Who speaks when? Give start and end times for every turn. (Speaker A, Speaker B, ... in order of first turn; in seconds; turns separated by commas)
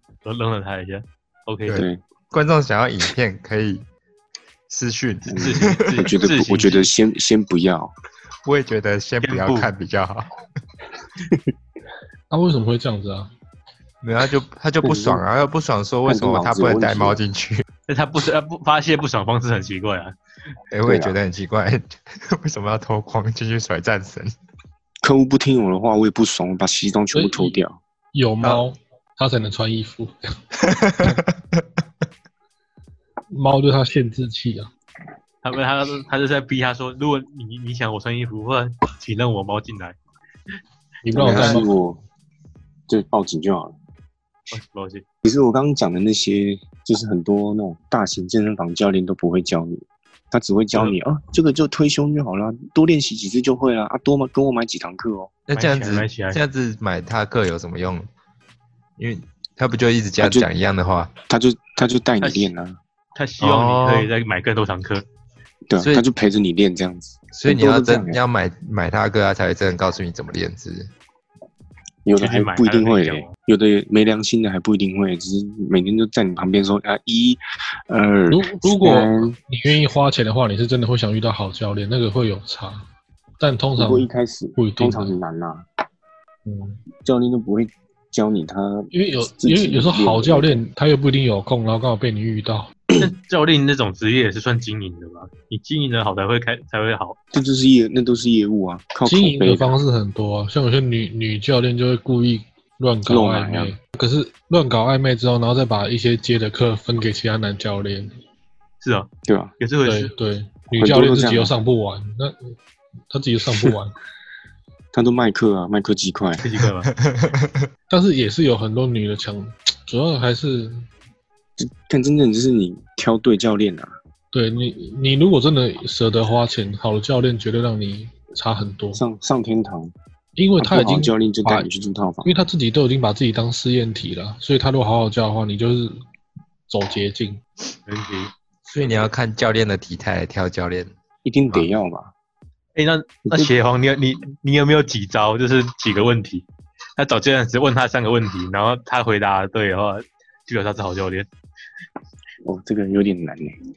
Speaker A: 0.2-1.8, Speaker B: 1.7-3.8, Speaker C: 1.7-2.0, Speaker B: 4.7-6.1, Speaker C: 5.3-7.9, Speaker A: 5.3-6.9, Speaker B: 8.4-10.3, Speaker A: 9.2-9.7, Speaker D: 12.3-13.3, Speaker B: 14.0-17.6, Speaker C: 14.8-15.2, Speaker C: 16.1-17.2, Speaker A: 17.9-20.1, Speaker B: 20.7-24.3, Speaker C: 20.9-21.2, Speaker C: 25.0-27.8, Speaker D: 27.1-27.6, Speaker D: 28.1-30.3, Speaker B: 30.6-31.6, Speaker D: 33.3-34.7, Speaker A: 35.4-40.0, Speaker D: 41.0-41.7, Speaker C: 41.1-42.0, Speaker A: 41.3-41.6, Speaker C: 42.9-43.7, Speaker A: 44.5-45.0, Speaker C: 45.2-55.3, Speaker B: 55.5-58.1, Speaker A: 55.5-56.4, Speaker B: 59.0-61.1, Speaker C: 60.2-60.5, Speaker C: 61.3-62.8, Speaker A: 62.2-62.5, Speaker A: 63.1-65.0, Speaker B: 63.4-64.1, Speaker C: 65.7-68.2, Speaker B: 65.8-66.0, Speaker B: 67.3-70.9, Speaker C: 72.0-79.3, Speaker A: 72.2-73.3, Speaker D: 78.3-82.8, Speaker D: 83.4-85.2, Speaker C: 83.8-85.6, Speaker D: 86.5-86.8, Speaker C: 87.0-90.6, Speaker D: 88.9-92.7, Speaker A: 93.0-97.2, Speaker C: 97.3-99.7, Speaker D: 99.0-108.1, Speaker C: 103.1-103.7, Speaker A: 108.8-109.1, Speaker C: 109.2-109.5, Speaker A: 109.6-110.1, Speaker D: 109.8-112.5, Speaker C: 110.8-111.5, Speaker D: 113.1-113.9, Speaker C: 114.9-116.4, Speaker A: 116.4-116.9, Speaker B: 116.9-117.7, Speaker D: 117.9-120.8, Speaker C: 121.6-123.9, Speaker D: 124.3-129.0, Speaker C: 128.9-129.9, Speaker D: 130.3-131.7, Speaker C: 130.6-132.3, Speaker D: 132.2-136.0, Speaker D: 136.7-137.4, Speaker A: 137.9-138.3, Speaker B: 138.7-140.9, Speaker C: 141.2-142.1, Speaker A: 142.8-146.4, Speaker C: 143.2-143.5, Speaker A: 147.0-151.3, Speaker C: 152.4-153.6